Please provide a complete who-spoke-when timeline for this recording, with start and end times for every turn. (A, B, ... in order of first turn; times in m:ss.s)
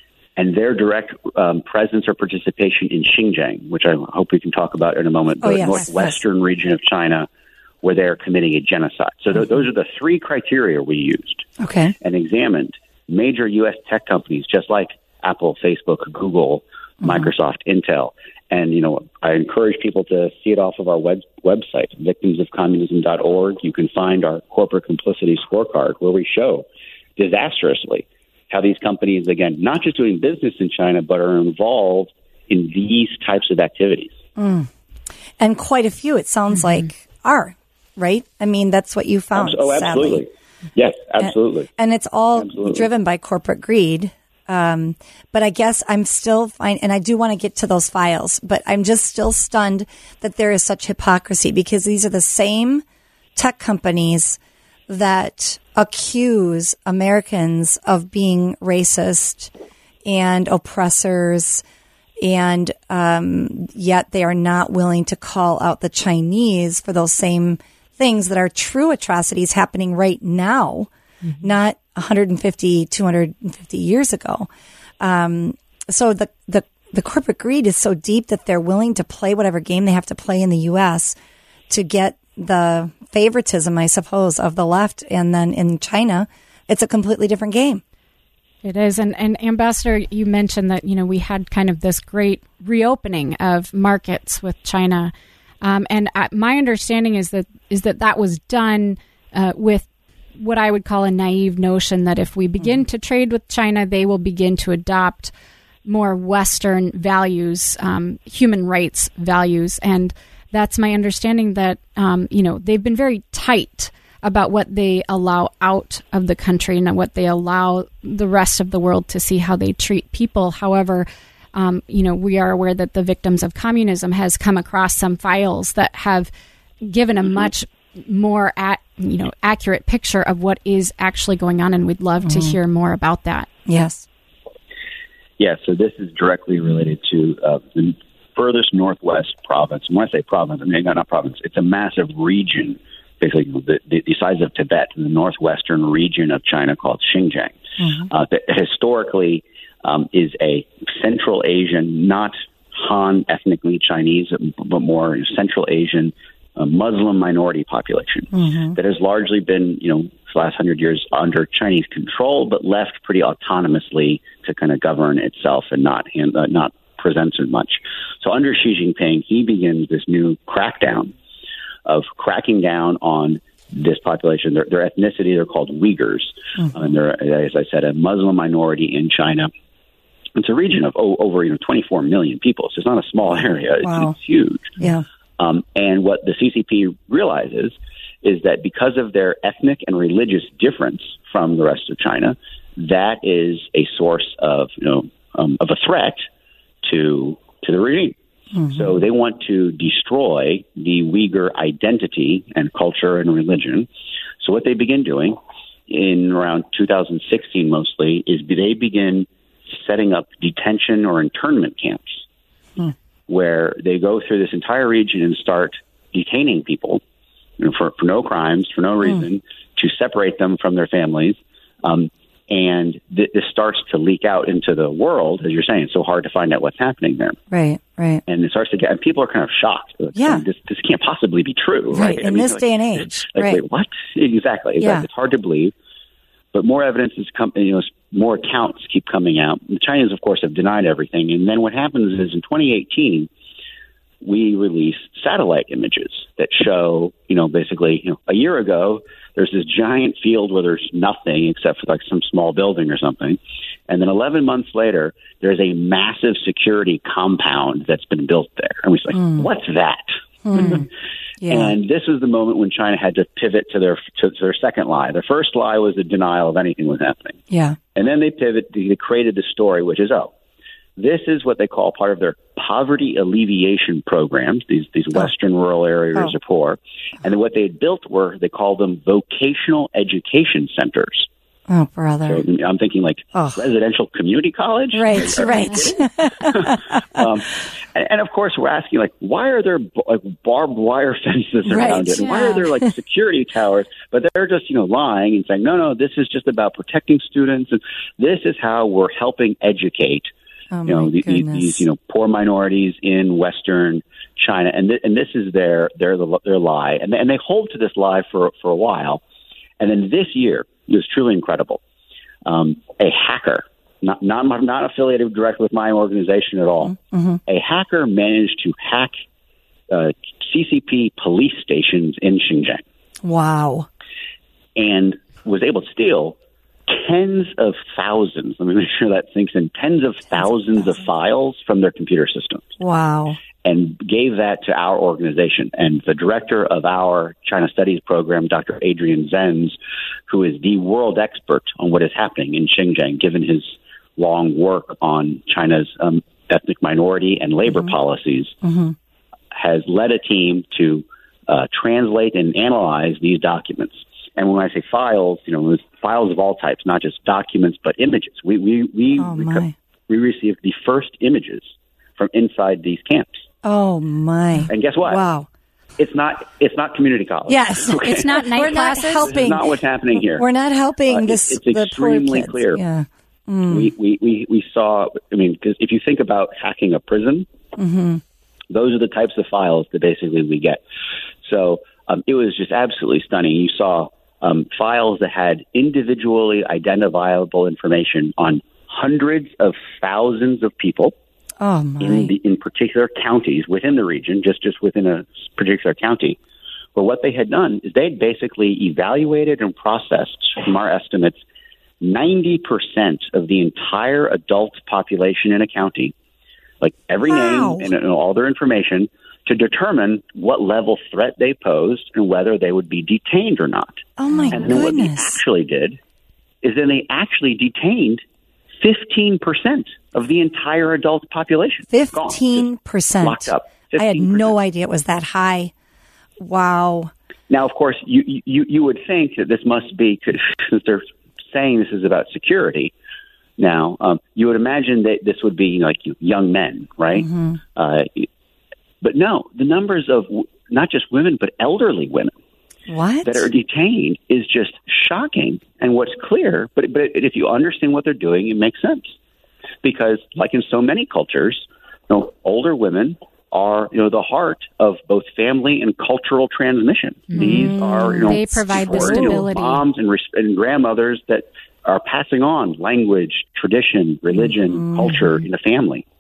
0:00.4-0:07.3 A
0:05.4-0:06.2 B
0:07.8-0:11.5 A
0:11.6-0:11.9 B
0:12.0-0:26.6 A
0:27.2-0:34.1 A
0:34.4-0:34.7 B
0:35.4-0:40.2 B
0:39.4-0:41.7 A
0:41.2-0:52.8 B
0:42.4-0:42.8 A
0:53.4-0:59.5 B
1:00.0-1:01.6 B
1:02.2-1:21.2 B
1:21.7-1:27.8 B
1:28.6-1:39.9 C
1:40.4-1:45.3 C
1:45.8-2:06.3 C
2:06.8-2:13.5 C
2:12.2-2:12.6 B
2:13.7-2:14.0 B
2:15.4-2:51.1 A
2:27.8-2:28.1 B
2:38.3-2:38.8 B
2:51.8-2:59.5 A
3:00.4-3:04.8 A
3:03.8-3:04.1 B
3:04.8-3:05.0 B
3:05.4-3:16.3 A
3:16.8-3:18.2 A
3:18.5-3:18.9 B
3:18.7-3:23.9 A
3:24.4-3:32.2 A
3:33.3-3:37.0 A
3:37.6-3:47.4 A
3:47.5-3:48.2 B
3:48.3-3:55.7 A
3:50.1-3:50.4 B
3:51.9-3:53.6 B
3:54.8-3:55.0 B
3:56.5-4:03.3 A
4:04.2-4:20.9 A
4:19.1-4:19.5 B
4:20.4-4:20.9 B
4:21.4-4:21.7 B
4:21.5-4:27.4 A
4:27.5-4:27.8 B
4:27.9-4:30.3 A
4:31.0-4:41.3 A
4:41.7-4:42.4 B
4:42.3-5:00.3 A
4:43.3-4:43.6 B
4:44.9-4:47.2 B
4:51.6-4:52.8 B
4:52.2-4:52.5 C
5:00.7-5:01.8 B
5:00.8-5:09.2 A
5:09.8-5:11.8 A
5:12.4-5:16.9 A
5:16.8-5:17.4 B
5:17.5-5:19.1 A
5:19.9-5:22.8 A
5:23.2-5:23.9 B
5:24.8-5:32.7 A
5:32.8-5:33.4 B
5:33.6-5:39.8 A
5:40.3-5:48.6 A
5:48.6-5:49.0 B
5:49.5-6:03.4 A
5:59.2-5:59.7 B
6:03.6-6:05.5 B
6:04.7-6:05.2 A
6:06.0-6:10.4 A
6:07.5-6:13.9 B
6:08.0-6:09.3 C
6:11.1-6:12.8 A
6:13.7-6:17.5 A
6:17.8-6:18.2 B
6:18.7-6:20.8 A
6:21.4-6:31.1 A
6:31.6-6:32.3 B
6:32.0-6:36.4 A
6:36.9-6:41.4 A
6:42.0-6:46.1 A
6:46.8-6:56.0 A
6:47.3-6:47.9 B
6:54.2-6:55.4 B
6:56.6-6:58.2 A
6:58.8-7:02.6 A
7:01.9-7:05.7 B
7:03.2-7:04.5 A
7:06.4-7:07.1 B
7:07.5-7:12.9 A
7:13.6-7:18.3 A
7:17.1-7:17.6 B
7:19.0-7:22.3 A
7:22.9-7:23.5 B
7:23.2-7:29.1 A
7:29.8-7:46.0 A
7:37.3-7:39.8 C
7:37.4-7:39.4 B
7:44.7-7:45.1 B